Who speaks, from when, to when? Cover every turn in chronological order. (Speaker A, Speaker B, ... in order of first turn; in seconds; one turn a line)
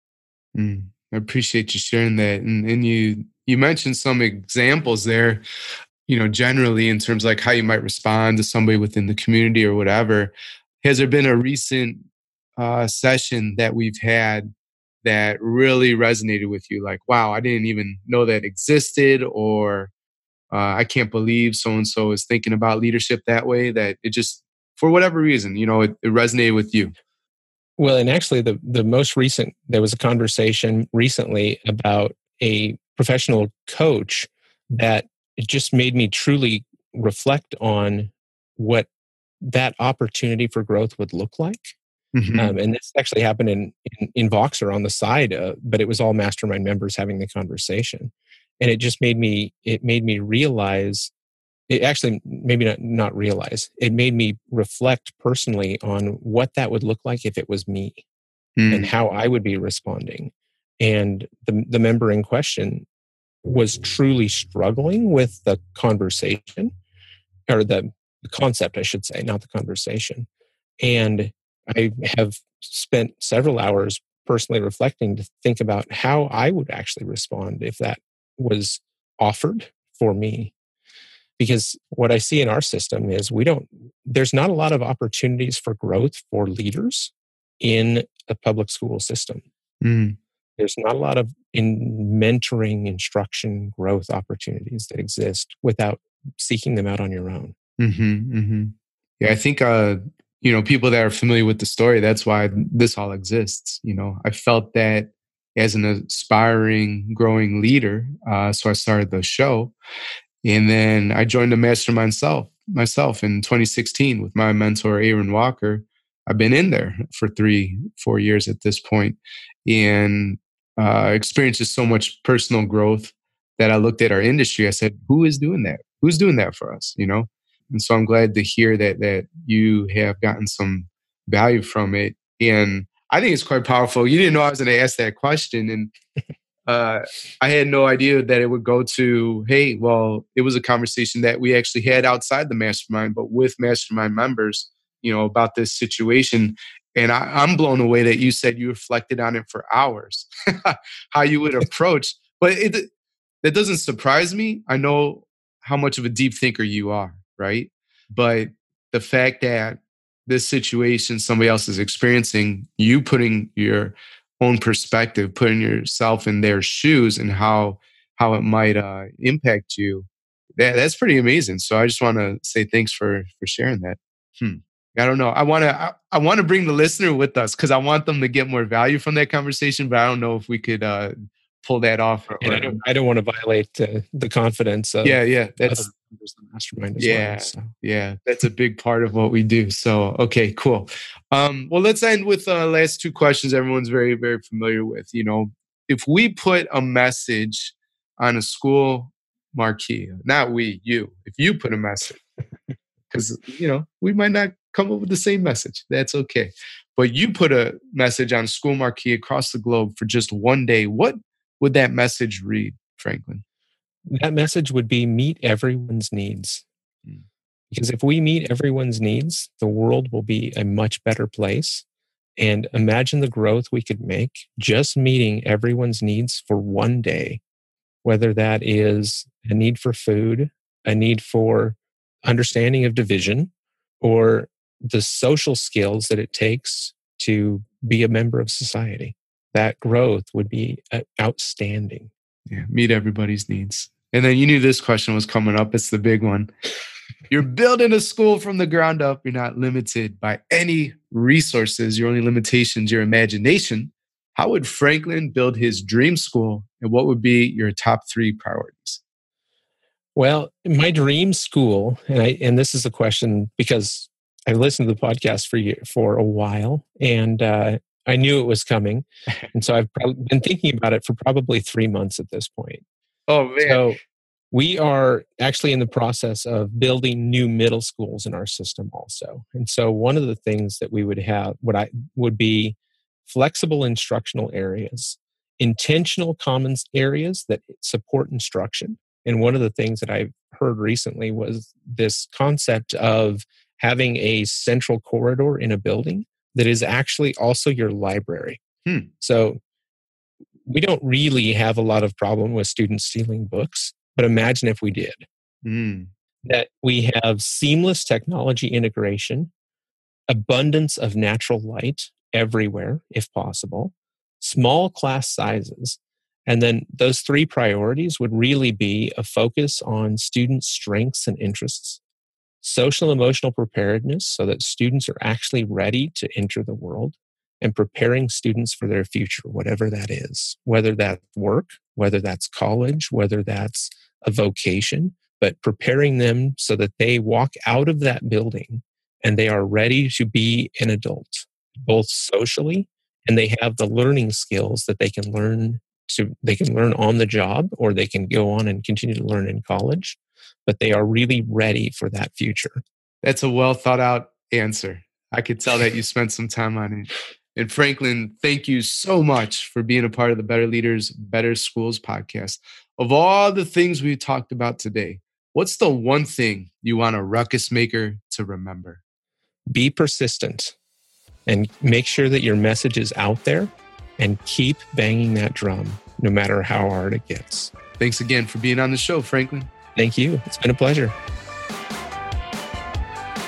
Speaker A: 0.6-5.4
Speaker A: 6.1-14.5
Speaker A: 15.0-19.9
Speaker A: 20.5-26.9
Speaker B: 27.8-38.9
Speaker B: 39.4-41.8
Speaker A: 42.1-42.5
Speaker B: 42.4-51.1
Speaker B: 51.7-58.0
Speaker A: 58.6-58.9
Speaker B: 58.7-62.9
Speaker B: 63.4-66.7
Speaker B: 67.5-70.3
Speaker B: 70.8-80.5
Speaker B: 81.4-89.4
Speaker A: 89.8-90.2
Speaker B: 90.6-97.5
Speaker A: 97.8-109.7
Speaker A: 110.4-135.9
Speaker A: 136.7-152.9
Speaker A: 153.4-182.8
Speaker B: 182.4-187.7
Speaker A: 185.0-185.9
Speaker A: 187.0-202.2
Speaker A: 203.1-213.4
Speaker B: 214.1-216.7
Speaker B: 217.7-221.8
Speaker B: 222.4-227.4
Speaker B: 228.0-242.1
Speaker A: 242.5-246.5
Speaker A: 247.3-259.0
Speaker B: 260.1-272.8
Speaker A: 273.3-274.0
Speaker B: 273.6-274.0
Speaker B: 274.5-298.6
Speaker B: 299.2-299.6
Speaker B: 300.6-305.3
Speaker A: 305.6-306.1
Speaker B: 306.4-309.5
Speaker B: 310.3-322.0
Speaker B: 322.6-352.8
Speaker A: 353.2-369.0
Speaker B: 369.7-370.8
Speaker B: 371.5-377.7
Speaker A: 378.0-379.7
Speaker B: 379.9-381.1